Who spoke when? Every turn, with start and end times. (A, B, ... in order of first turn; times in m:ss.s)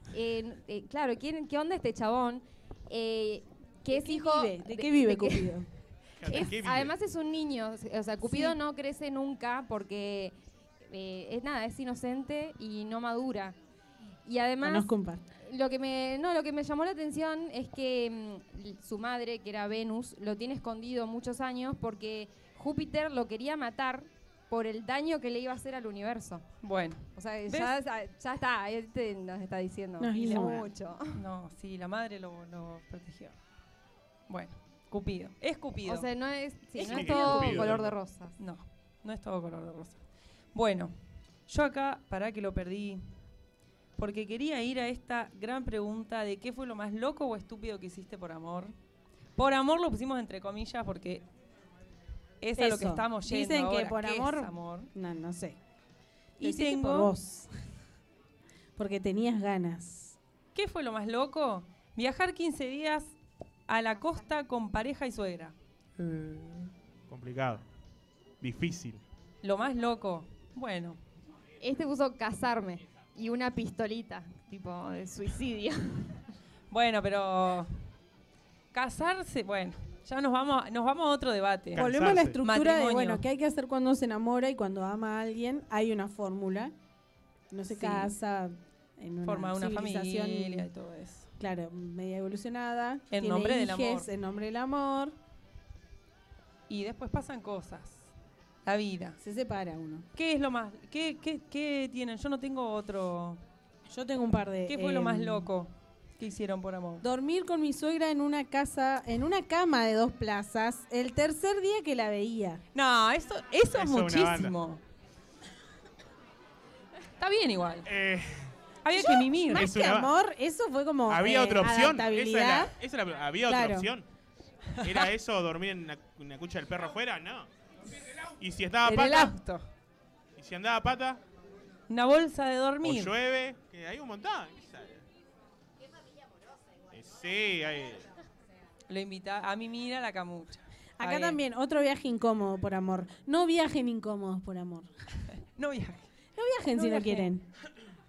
0:00.1-0:05.5 A
0:03.9-0:05.7 B
0:06.2-0:06.9 C
0:06.3-0:10.3 A
0:08.2-0:08.6 B
0:10.9-0:13.6 A
0:14.2-0:26.5 A
0:14.6-0:15.2 B
0:26.6-0:27.7 D
0:27.1-0:31.2 A
0:30.0-0:30.7 B
0:31.1-0:33.4 D
0:34.3-0:36.1 D
0:35.8-0:38.3 A
0:36.8-0:37.7 D
0:36.8-0:37.9 C
0:38.4-0:40.0 D
0:40.5-0:40.9 D
0:41.5-0:43.0 D
0:44.0-0:48.7 D
0:49.4-0:51.2 D
0:52.4-0:54.9 D
0:52.6-0:55.6 B
0:56.4-0:57.1 D
0:56.4-0:57.5 B
0:58.8-1:00.2 B
1:00.5-1:03.1 D
1:03.7-1:06.7 D
1:07.1-1:07.6 C
1:08.4-1:09.0 C
1:09.4-1:11.0 D
1:11.6-1:16.2 A
1:16.7-1:17.8 D
1:18.7-1:21.9 D
1:21.8-1:22.4 C
1:21.8-1:26.7 B
1:22.4-1:23.2 D
1:27.5-1:30.7 B
1:27.7-1:28.1 D
1:29.2-1:31.3 D
1:31.4-1:35.1 B
1:33.1-1:34.1 D
1:36.7-1:38.1 D
1:38.6-1:39.2 D
1:39.2-1:40.1 B
1:40.1-1:43.4 D
1:43.9-1:45.5 B
1:44.7-1:47.0 D
1:47.0-1:52.6 B
1:52.7-1:54.8 D
1:53.7-1:54.5 C
1:57.2-1:57.9 D
1:57.8-1:58.5 C
1:58.8-1:59.7 D
1:58.9-2:02.7 B
1:59.5-2:00.1 C
2:01.1-2:04.0 C
2:03.4-2:03.9 B
2:04.8-2:07.5 C
2:08.4-2:09.3 C
2:08.9-2:09.3 B
2:08.9-2:09.6 D
2:10.4-2:11.2 C
2:11.9-2:13.1 D
2:12.8-2:15.0 C
2:16.9-2:18.1 C
2:18.9-2:21.4 D
2:21.0-2:24.9 B
2:25.6-2:26.1 D
2:26.4-2:27.5 B
2:26.7-2:27.3 D